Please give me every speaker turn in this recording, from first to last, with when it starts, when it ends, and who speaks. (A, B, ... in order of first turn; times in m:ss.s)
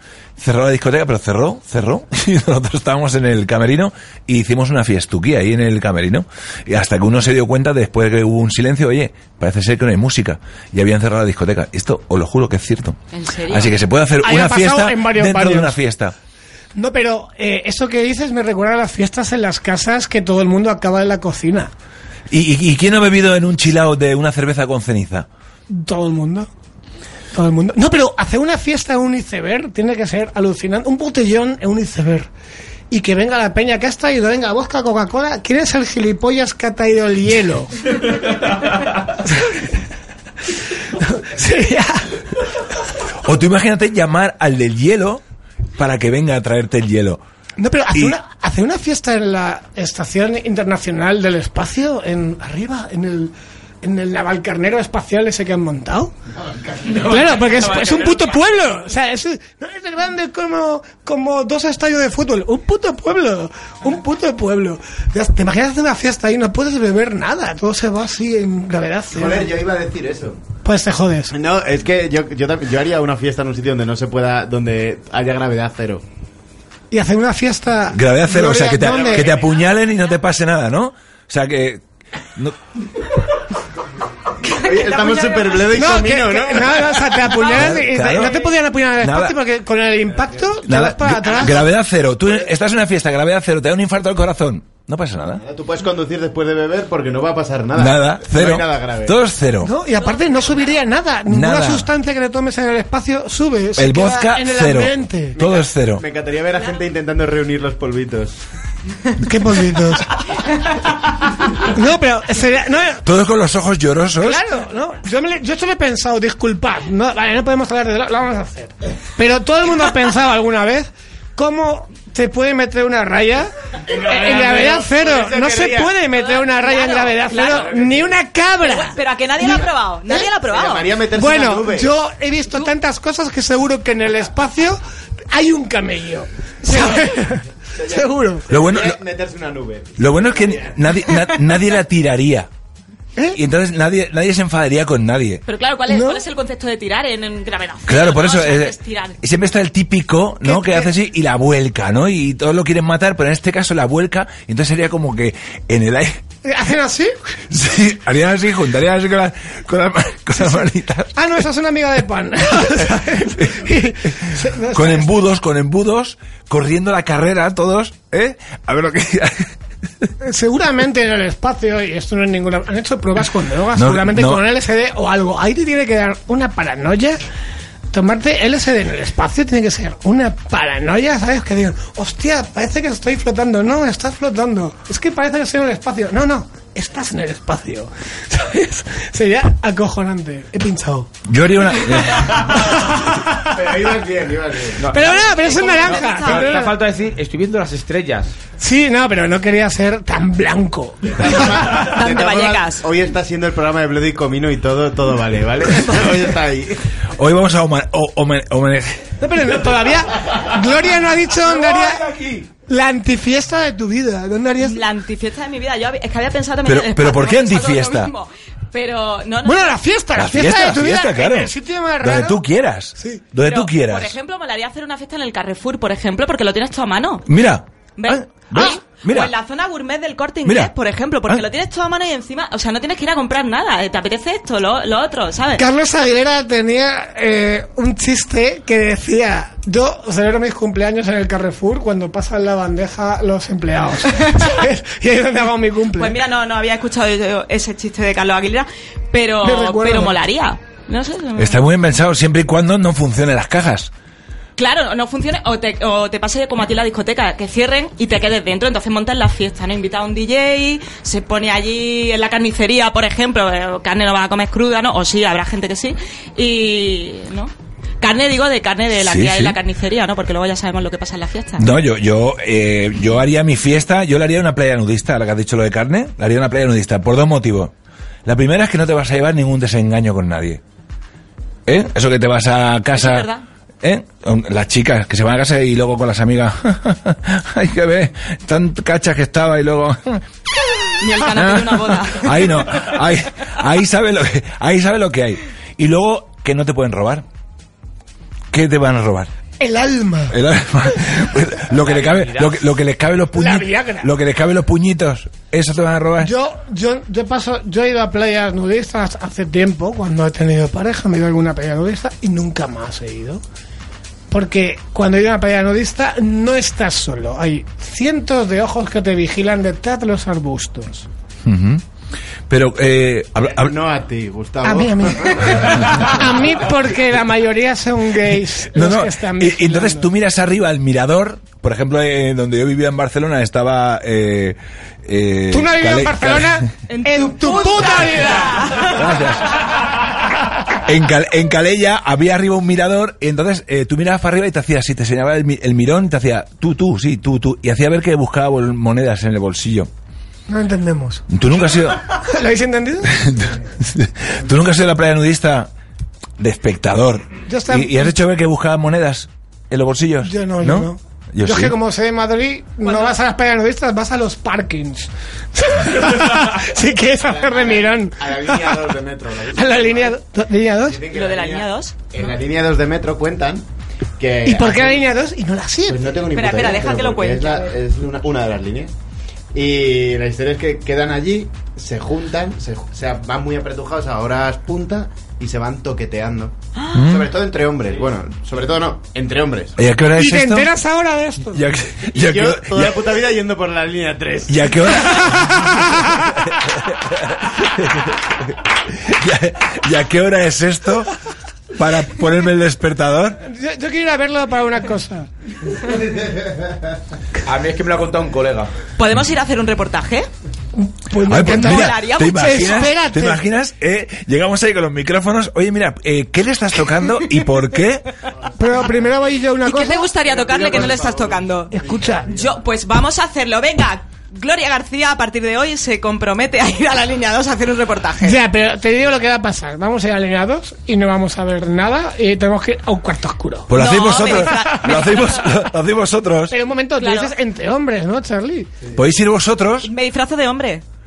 0:00.4-0:16.1 A
0:13.1-0:13.8 B
0:14.2-0:15.8 C
0:16.7-0:21.7 C
0:22.3-0:25.3 A
0:25.7-0:26.5 C
0:27.3-0:32.3 C
0:32.9-0:37.7 C
0:39.2-0:39.6 C
0:40.9-0:42.2 C
0:43.2-0:45.2 A
0:45.8-0:47.2 A
0:47.6-0:56.1 C
0:56.9-1:09.5 C
1:09.1-1:10.4 D
1:10.6-1:11.3 C
1:11.3-1:16.0 D
1:16.9-1:19.4 C
1:17.9-1:21.8 A
1:18.8-1:19.4 D
1:24.4-1:26.1 B
1:24.4-1:27.4 D
1:25.7-1:31.6 C
1:27.4-1:28.4 A
1:29.0-1:29.4 A
1:30.6-1:35.4 A
1:35.4-1:39.2 D
1:37.8-1:39.7 A
1:39.6-1:45.4 C
1:41.3-1:41.9 A
1:43.8-1:46.0 A
1:45.4-1:48.3 D
1:49.2-1:50.1 C
1:51.6-1:53.0 C
1:53.0-1:54.4 A
1:54.2-2:09.6 C
2:03.9-2:05.9 D
2:06.1-2:07.7 B
2:07.3-2:08.1 D
2:08.6-2:10.9 B
2:10.4-2:11.9 D
2:11.1-2:14.8 C
2:15.3-2:18.5 C
2:17.8-2:20.6 D
2:18.5-2:19.0 A
2:20.0-2:22.5 A
2:23.3-2:25.4 A
2:25.5-2:29.2 B
2:25.9-2:26.2 C
2:27.9-2:36.2 A
2:30.4-2:30.9 C
2:36.4-2:37.1 C
2:37.5-2:41.1 A
2:40.4-2:45.2 C
2:42.8-2:43.7 A
2:44.7-2:49.5 A
2:50.2-2:57.2 C
2:53.7-2:54.4 A
2:57.9-3:11.1 C
3:11.2-3:12.6 A
3:12.0-3:13.5 C
3:13.4-3:14.9 D
3:14.8-3:18.3 E
3:14.9-3:16.8 C
3:18.6-3:21.4 C
3:21.2-3:26.8 D
3:21.6-3:22.8 B
3:27.1-3:29.2 A
3:29.2-3:32.0 C
3:31.4-3:32.5 A
3:32.7-3:34.8 C
3:34.6-3:39.8 B
3:36.6-3:38.1 A
3:39.4-3:42.4 C
3:40.2-3:44.2 A
3:43.0-3:43.2 C
3:43.4-3:47.2 B
3:47.2-3:49.3 A
3:48.0-3:55.6 B
3:50.4-3:50.7 A
3:55.6-4:06.1 C
4:04.2-4:04.5 B
4:06.0-4:11.6 B
4:09.4-4:10.1 C
4:11.4-4:13.9 A
4:14.6-4:31.6 B
4:29.0-4:29.6 A
4:31.6-4:37.7 A
4:38.2-4:40.6 A
4:41.6-4:43.3 A
4:42.9-4:43.4 B
4:43.8-4:50.2 A
4:50.9-4:57.2 A
4:51.0-4:52.8 B
4:58.5-4:59.3 A
4:59.6-5:00.4 C
5:00.3-5:06.3 A
5:01.8-5:02.6 E
5:03.3-5:04.1 C
5:06.2-5:13.4 C
5:14.3-5:21.1 C
5:21.4-5:21.8 A
5:22.5-5:23.7 A
5:23.5-5:26.2 D
5:24.6-5:30.1 C
5:28.7-5:36.7 A
5:35.5-5:38.8 C
5:36.9-5:39.1 B
5:38.8-5:39.7 A
5:40.8-5:49.9 A
5:50.5-5:51.2 C
5:51.3-5:52.0 A
5:52.1-5:53.4 C
5:53.1-5:55.7 A
5:56.4-6:01.8 A
5:57.5-5:58.1 C
6:00.2-6:08.8 C
6:02.8-6:03.1 B
6:07.2-6:10.2 D
6:09.5-6:11.0 C
6:10.8-6:13.6 D
6:11.1-6:12.0 B
6:14.2-6:15.0 D
6:14.4-6:16.1 C
6:15.9-6:18.9 D
6:16.3-6:17.7 B
6:19.5-6:29.8 D
6:26.8-6:27.1 B
6:26.9-6:27.3 A
6:29.8-6:30.7 A
6:30.1-6:31.6 C
6:31.5-6:33.1 A
6:32.1-6:34.8 D
6:34.5-6:41.1 A
6:35.1-6:36.3 C
6:41.7-6:43.4 A
6:43.4-6:45.3 C
6:47.4-6:48.7 E
6:49.0-6:50.3 B
6:50.8-6:53.4 C
6:51.2-6:58.0 A
6:51.3-6:52.9 B
6:58.6-7:00.1 C
6:59.6-7:01.7 B
7:00.2-7:02.3 D
7:01.7-7:02.4 C
7:02.3-7:08.4 B
7:08.2-7:13.7 C
7:13.7-7:16.6 A
7:13.7-7:15.5 B
7:16.5-7:18.7 C
7:17.0-7:17.3 B
7:18.9-7:19.9 A
7:19.8-7:20.8 B